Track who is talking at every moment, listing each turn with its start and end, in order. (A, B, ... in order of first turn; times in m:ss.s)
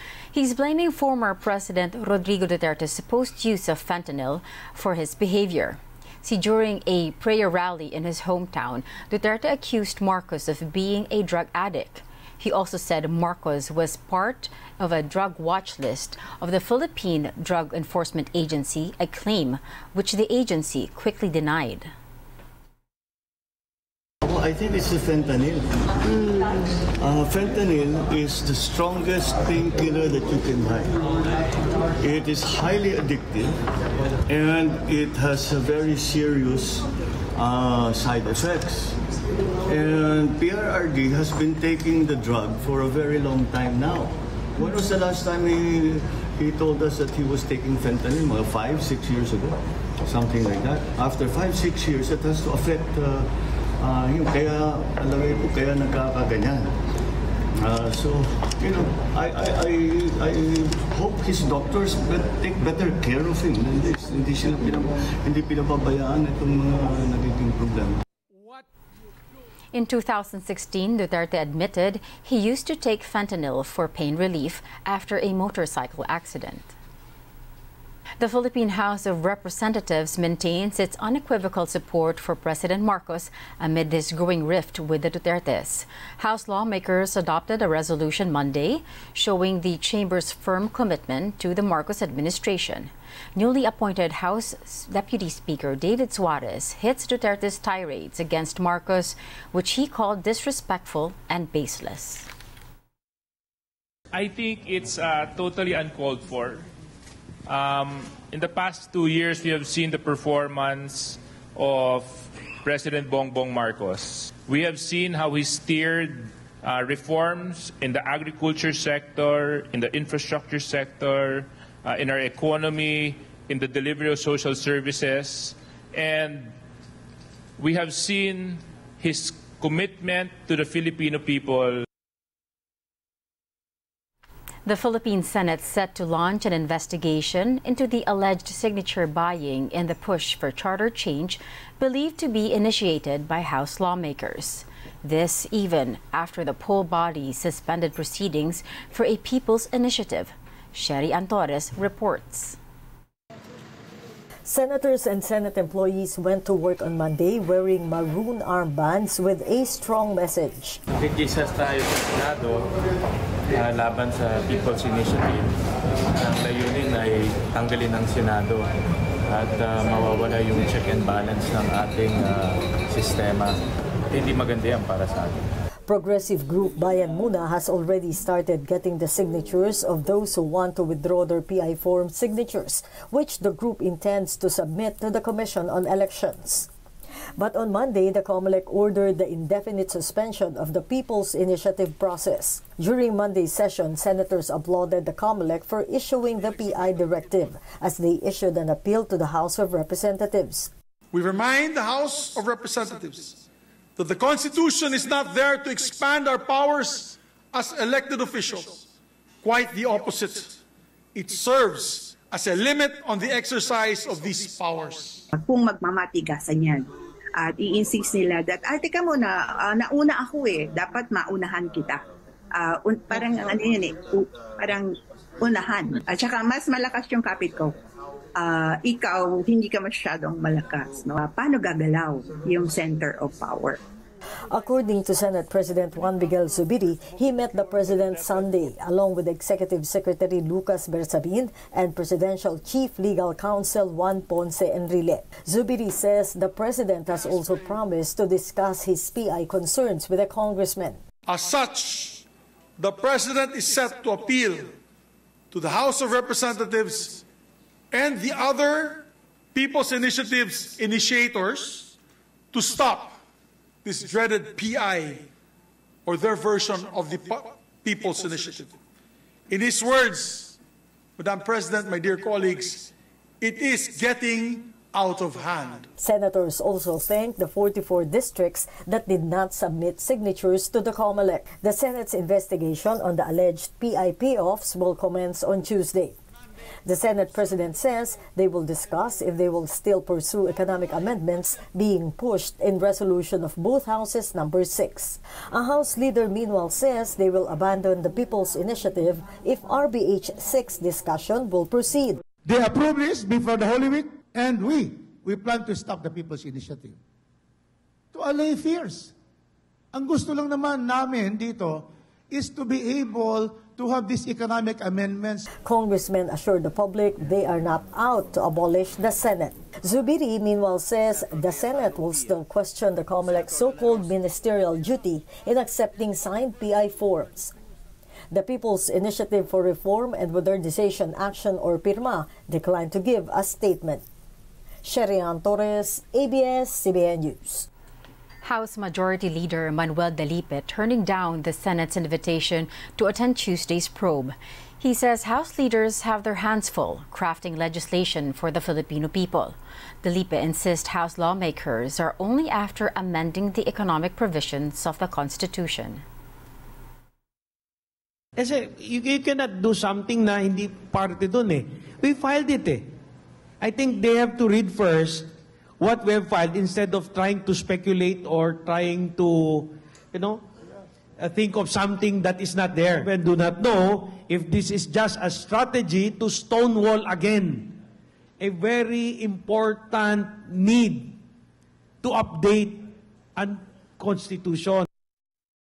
0:00.3-0:21.9 A
0:24.2-0:25.6 B
0:27.0-0:30.9 B
0:32.0-0:33.5 B
0:34.3-0:39.0 B
0:39.7-0:53.2 B
0:53.8-0:56.7 B
0:57.6-1:08.0 B
1:09.7-1:16.7 A
1:18.2-1:42.3 A
1:44.1-1:46.6 C
1:47.5-2:06.5 C
2:07.6-2:11.8 C
2:14.6-2:32.6 A
2:34.5-2:40.8 D
2:41.2-2:42.6 E
2:43.6-2:45.4 E
2:46.2-2:48.6 E
2:49.4-2:53.5 E
2:54.1-2:55.3 E
2:55.9-3:06.7 D
3:07.4-3:20.7 D
3:21.1-3:23.4 F
3:24.0-3:28.8 F
3:29.4-3:30.6 F
3:31.1-3:35.2 F
3:35.3-3:47.7 G
3:48.4-3:53.8 G
3:54.5-4:11.0 D
4:11.3-4:12.2 F
4:12.8-4:14.7 F
4:15.5-4:17.2 F
4:17.9-4:21.9 F
4:22.5-4:23.2 F
4:23.8-4:25.2 F
4:26.0-4:28.8 F
4:29.5-4:30.5 F
4:31.2-4:32.9 F
4:33.4-4:35.9 F
4:36.0-4:46.1 D
4:46.8-5:02.2 D
5:02.4-5:06.9 H
5:08.1-5:09.1 H
5:09.9-5:15.4 H
5:15.6-5:27.5 D
5:28.3-5:34.0 D
5:34.8-5:37.7 D
5:38.4-5:56.0 A
5:58.4-6:02.8 I
6:03.6-6:05.3 I
6:05.8-6:10.4 I
6:11.2-6:17.7 I
6:18.4-6:21.2 I
6:22.0-6:22.8 I
6:23.4-6:24.8 I